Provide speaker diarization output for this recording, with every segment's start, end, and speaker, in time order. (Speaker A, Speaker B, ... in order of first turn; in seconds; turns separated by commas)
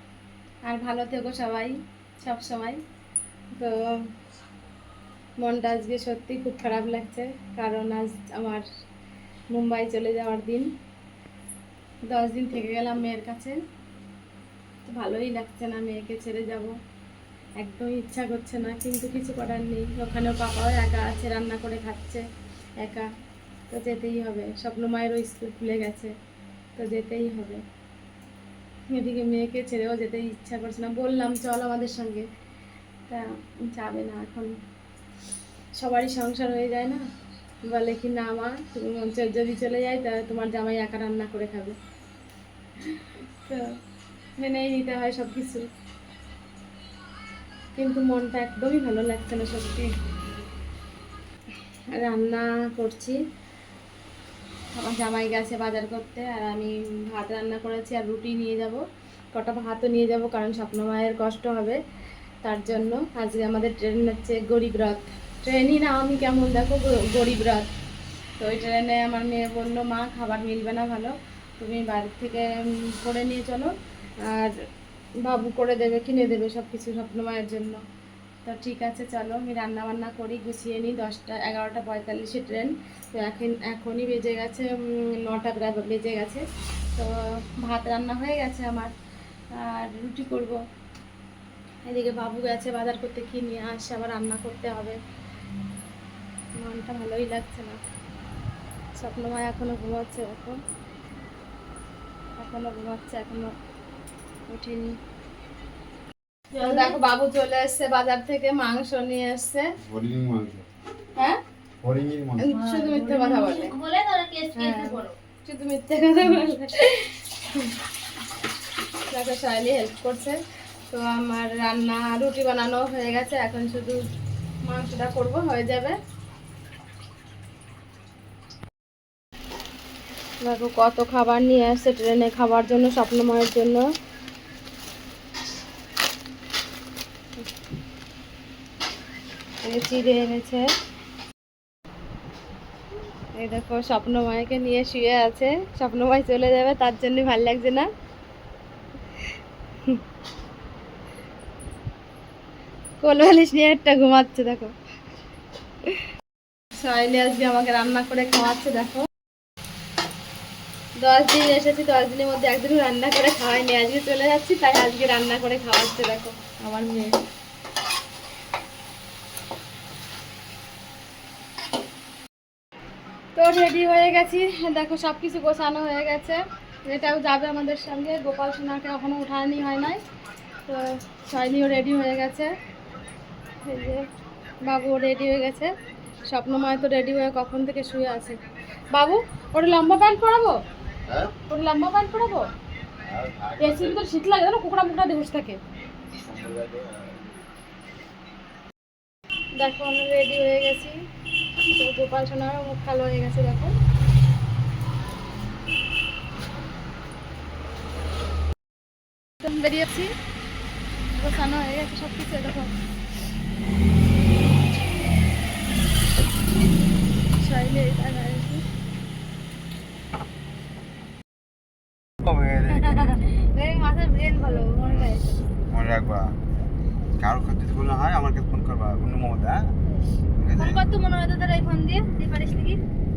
Speaker A: 0.6-2.8, Speaker A: 3.5-4.0, Speaker A: 5.4-8.6, Speaker A: 9.5-10.7, Speaker A: 12.1-13.6, Speaker A: 14.8-16.7, Speaker A: 17.6-22.2, Speaker A: 22.8-23.1, Speaker A: 23.7-26.1, Speaker A: 26.8-27.6, Speaker A: 28.9-32.3, Speaker A: 33.1-34.5, Speaker A: 35.8-37.0, Speaker A: 37.6-41.8, Speaker A: 44.4-45.7, Speaker A: 47.7-49.9, Speaker A: 51.9-53.2, Speaker A: 54.7-58.8, Speaker A: 59.3-61.8, Speaker A: 62.4-67.7, Speaker A: 68.4-73.7, Speaker A: 74.2-74.5, Speaker A: 75.2-77.8, Speaker A: 78.4-88.9, Speaker A: 89.5-90.6, Speaker A: 91.8-95.0, Speaker A: 96.6-97.8, Speaker A: 98.9-100.6, Speaker A: 102.4-103.5, Speaker A: 104.5-105.0, Speaker B: 106.5-107.0, Speaker A: 106.6-109.7, Speaker C: 109.8-110.7, Speaker A: 111.2-111.4, Speaker C: 111.8-112.5, Speaker A: 112.4-113.8, Speaker B: 112.5-115.1, Speaker A: 114.5-117.7, Speaker A: 119.1-124.0, Speaker A: 124.6-126.0, Speaker A: 130.4-133.8, Speaker A: 139.6-140.7, Speaker A: 143.3-147.9, Speaker A: 153.0-154.7, Speaker A: 156.7-159.1, Speaker A: 161.0-167.2, Speaker A: 173.3-180.0, Speaker A: 180.6-182.5, Speaker A: 183.6-184.1, Speaker A: 184.6-185.7, Speaker A: 186.2-188.4, Speaker A: 188.9-190.5, Speaker C: 191.1-191.3, Speaker A: 191.5-192.5, Speaker C: 193.0-194.0, Speaker A: 193.6-195.6, Speaker C: 196.2-197.2, Speaker A: 199.6-201.0, Speaker A: 201.7-203.7, Speaker A: 209.4-210.1, Speaker A: 211.2-212.7, Speaker A: 217.4-218.6, Speaker C: 222.2-222.9, Speaker B: 222.6-225.4, Speaker C: 224.8-225.1, Speaker C: 225.7-226.3, Speaker C: 227.2-229.7, Speaker C: 230.4-230.8, Speaker B: 230.6-232.8